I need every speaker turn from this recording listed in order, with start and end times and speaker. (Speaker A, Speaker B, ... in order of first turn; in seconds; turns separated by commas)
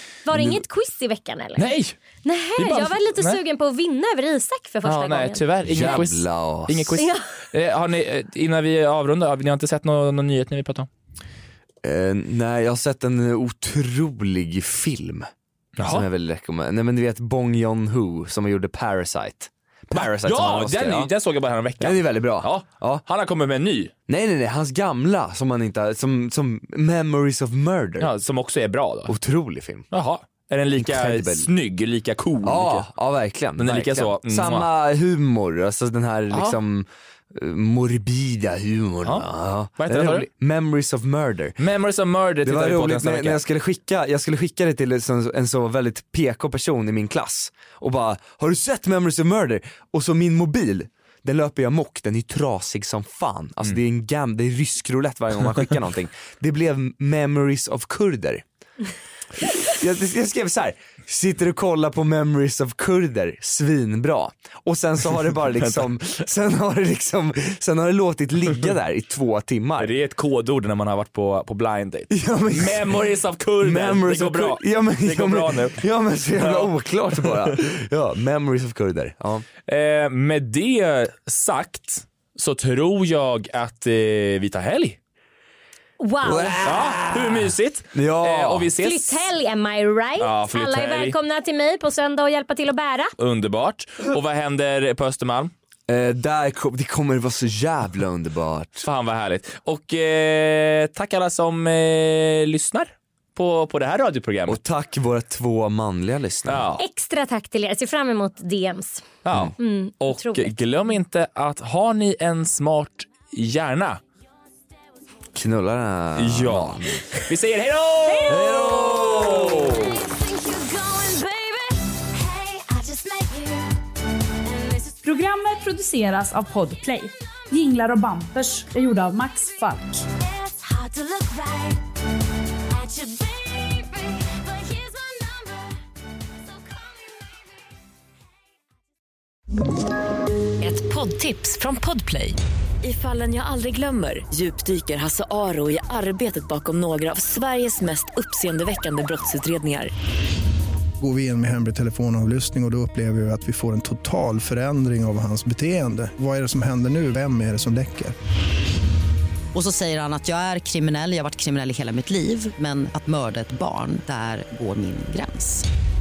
Speaker A: 0.2-1.7, Speaker B: 1.6-1.9, Speaker A: 2.2-5.4, Speaker B: 2.6-3.4, Speaker B: 4.8-10.9, Speaker C: 5.7-7.0, Speaker C: 11.8-15.3, Speaker B: 15.8-16.1, Speaker C: 15.8-21.1, Speaker B: 19.9-23.9, Speaker C: 21.8-23.0, Speaker C: 24.1-28.1, Speaker B: 28.0-29.1, Speaker C: 29.1-29.9, Speaker B: 29.9-32.9, Speaker C: 30.8-31.5, Speaker C: 32.4-41.6, Speaker B: 33.6-34.7, Speaker B: 36.3-36.6, Speaker B: 39.0-40.3, Speaker B: 41.6-43.4, Speaker C: 42.4-58.4, Speaker C: 59.4-70.0, Speaker B: 65.6-65.9, Speaker B: 69.8-75.8, Speaker C: 72.1-73.0, Speaker C: 73.6-79.4, Speaker B: 76.4-77.6, Speaker B: 79.7-85.0, Speaker A: 86.0-86.9, Speaker C: 86.2-88.7, Speaker B: 86.6-89.3, Speaker A: 88.8-93.1, Speaker B: 90.2-91.1, Speaker B: 93.2-95.5, Speaker C: 95.9-98.9, Speaker B: 98.8-104.6, Speaker C: 104.5-106.7, Speaker B: 106.5-106.8, Speaker A: 106.8-109.0, Speaker B: 109.2-114.0, Speaker A: 109.6-110.5, Speaker C: 115.3-117.1, Speaker B: 116.2-120.0, Speaker A: 118.1-118.5, Speaker C: 118.2-120.0, Speaker A: 120.1-121.6, Speaker A: 122.5-122.8, Speaker D: 125.0-130.1, Speaker E: 130.8-131.6, Speaker E: 140.6-149.9, Speaker F: 151.0-158.1, Speaker G: 159.5-165.7